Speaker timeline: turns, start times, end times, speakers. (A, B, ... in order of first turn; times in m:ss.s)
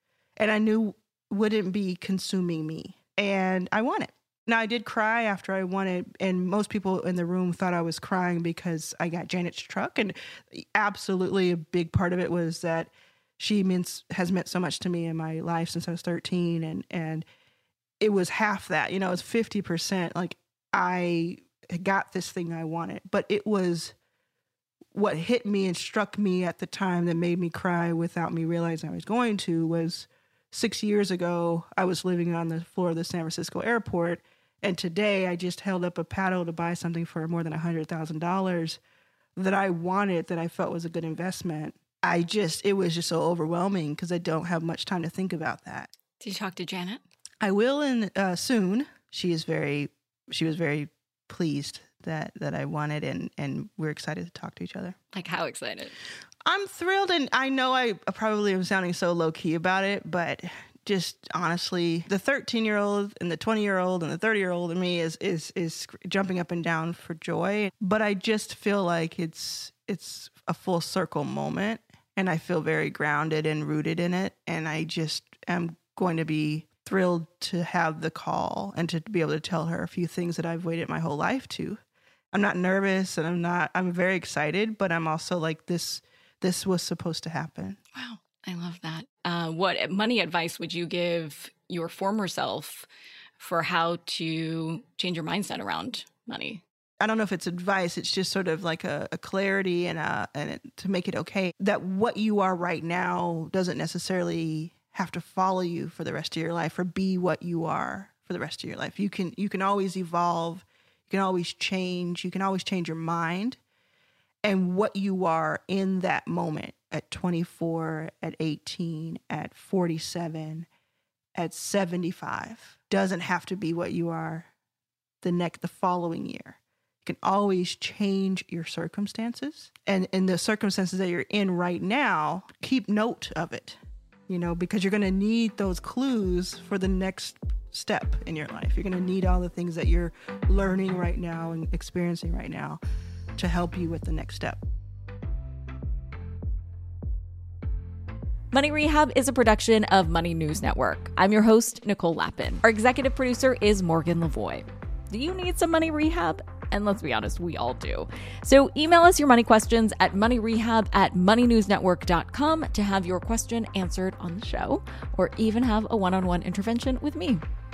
0:00.4-0:17.2 A
0:18.0-0:23.9 A
0:24.9-0:38.8 A
0:39.4-0:45.9 A
0:46.2-0:47.0 B
0:47.4-0:55.0 A
0:55.1-0:56.0 B
0:56.4-1:21.8 A
1:22.3-1:27.8 A
1:27.9-1:32.9 B
1:33.4-1:36.6 B
1:37.0-1:53.6 A
1:54.4-2:00.7 A
2:01.4-2:04.5 A
2:05.2-2:22.8 A
2:23.4-2:24.6 A
2:28.5-2:47.4 B